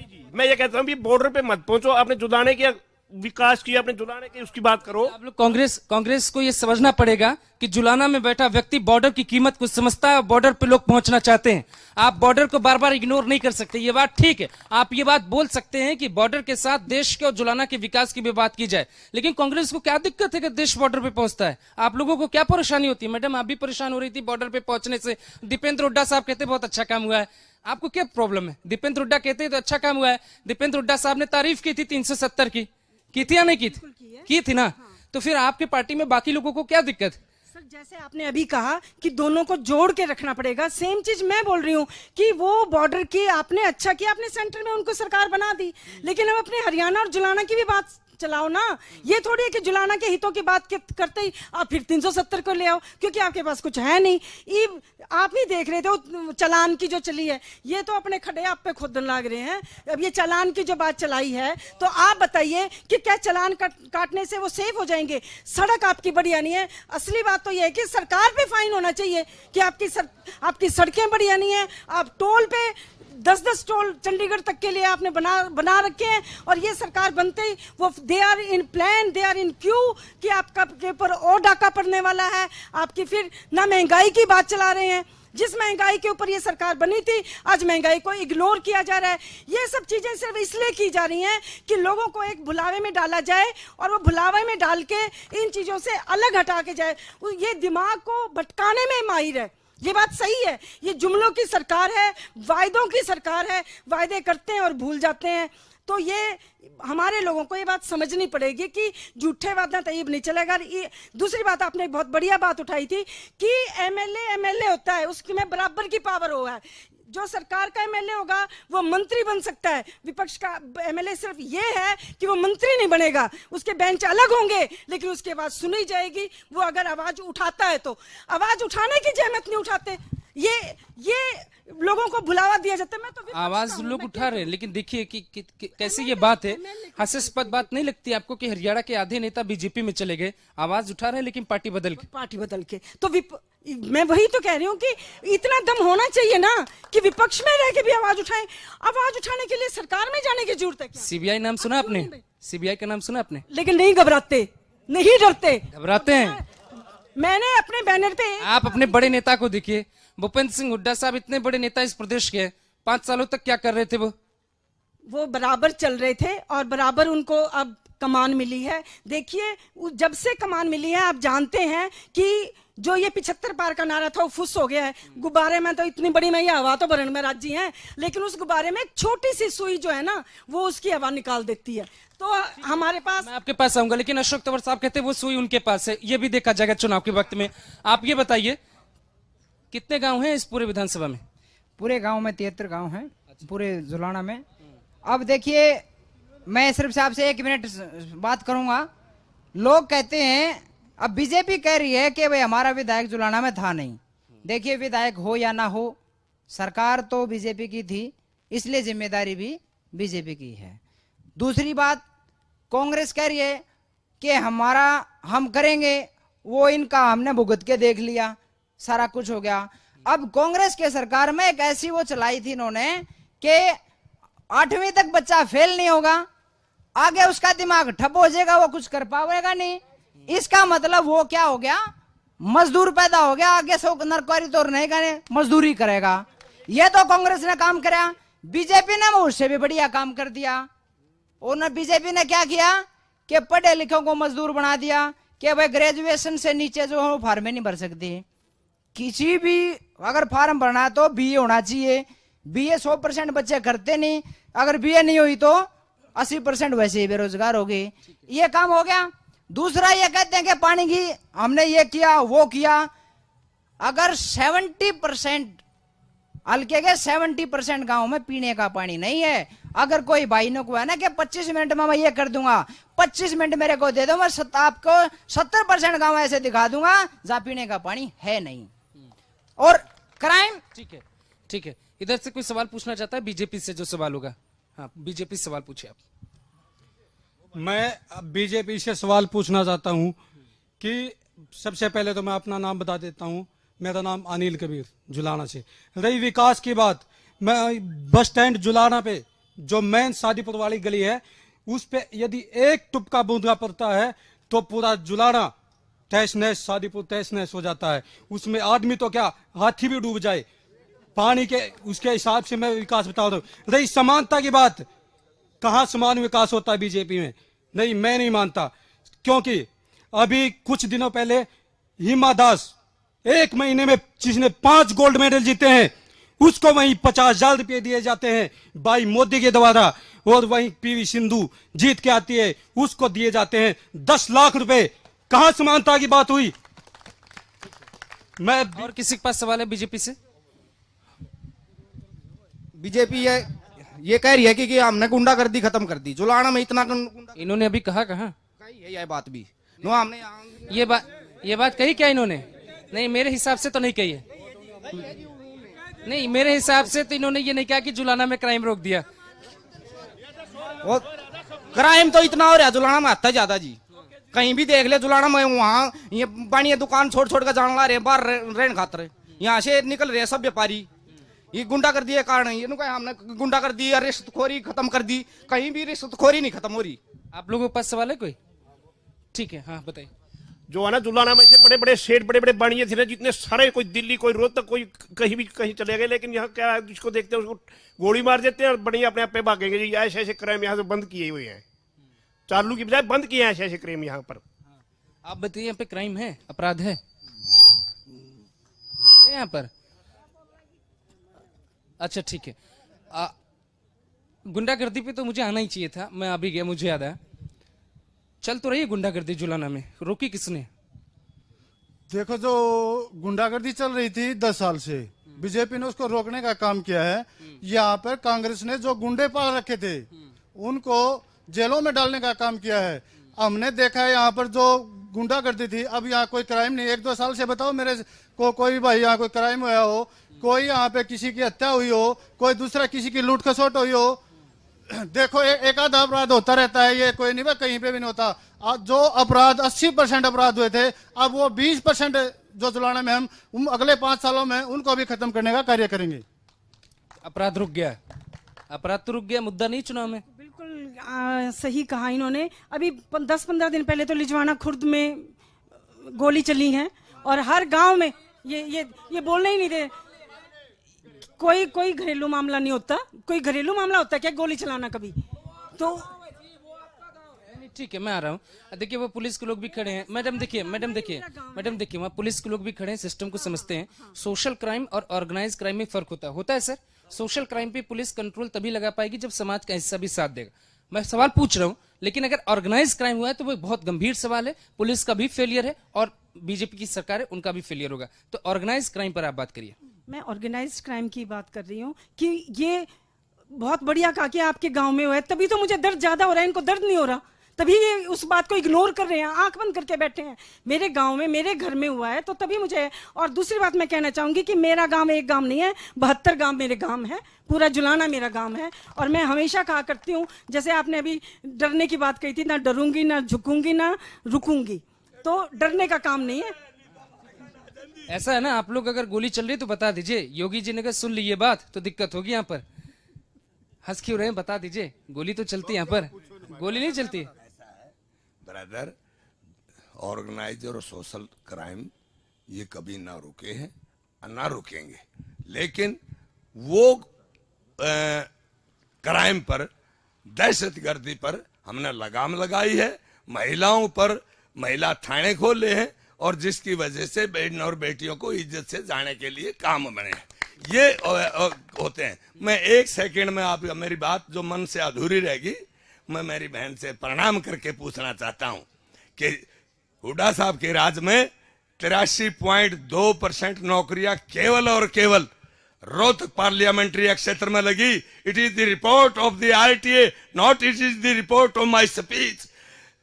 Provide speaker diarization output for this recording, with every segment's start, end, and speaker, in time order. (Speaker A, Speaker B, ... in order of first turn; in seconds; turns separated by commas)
Speaker A: 0.3-5.1, Speaker B: 5.1-37.2, Speaker C: 33.3-34.9, Speaker C: 37.5-134.5, Speaker B: 133.3-142.0, Speaker C: 135.8-137.7, Speaker C: 141.9-151.1, Speaker B: 151.0-153.4, Speaker C: 151.6-152.2, Speaker C: 153.5-156.4, Speaker B: 155.7-156.4, Speaker C: 157.2-159.2, Speaker B: 158.4-164.1, Speaker C: 165.1-183.3, Speaker B: 183.2-188.6, Speaker B: 189.7-191.2, Speaker D: 191.8-194.4, Speaker D: 195.1-195.8, Speaker D: 196.5-198.9, Speaker D: 199.5-206.0, Speaker D: 206.5-210.8, Speaker D: 211.4-212.0, Speaker D: 212.7-213.6, Speaker D: 214.2-223.8, Speaker D: 224.5-226.3, Speaker D: 226.9-240.7, Speaker D: 241.4-248.2, Speaker D: 248.9-262.9, Speaker D: 263.8-265.6, Speaker D: 266.5-278.7, Speaker D: 279.6-280.6, Speaker B: 280.7-286.0, Speaker E: 287.5-290.1, Speaker E: 290.8-305.5, Speaker E: 306.1-310.4, Speaker E: 311.1-314.9, Speaker E: 315.6-318.7, Speaker E: 319.2-321.5, Speaker E: 322.0-322.7, Speaker E: 323.2-336.5, Speaker E: 338.4-338.9, Speaker B: 338.7-340.2, Speaker F: 342.8-347.3, Speaker B: 347.3-348.3, Speaker F: 348.6-350.5, Speaker B: 350.7-354.2, Speaker B: 356.0-359.1, Speaker F: 361.7-363.8, Speaker F: 364.3-370.9, Speaker F: 371.5-377.0, Speaker B: 377.3-378.4, Speaker B: 379.3-380.1, Speaker A: 380.7-391.6, Speaker A: 392.5-394.4, Speaker B: 395.2-397.0, Speaker B: 399.2-399.7, Speaker B: 402.0-402.6, Speaker B: 404.5-407.2, Speaker B: 408.4-410.7, Speaker G: 412.1-434.2, Speaker G: 434.9-446.2, Speaker B: 447.2-448.0, Speaker B: 448.7-450.2, Speaker C: 450.3-455.3, Speaker C: 456.0-459.9, Speaker C: 461.4-465.2, Speaker C: 465.7-466.1, Speaker B: 467.5-489.8, Speaker C: 470.2-471.8, Speaker C: 473.4-474.1, Speaker C: 490.1-492.9, Speaker C: 493.5-516.5, Speaker B: 518.1-522.6, Speaker B: 523.8-527.3, Speaker H: 528.4-528.9, Speaker H: 530.0-531.9, Speaker H: 532.5-536.0, Speaker H: 536.5-537.1, Speaker H: 537.8-538.3, Speaker H: 539.0-539.7, Speaker H: 540.2-555.6, Speaker H: 556.1-558.6, Speaker H: 559.2-559.4, Speaker H: 560.0-565.3, Speaker H: 565.9-572.5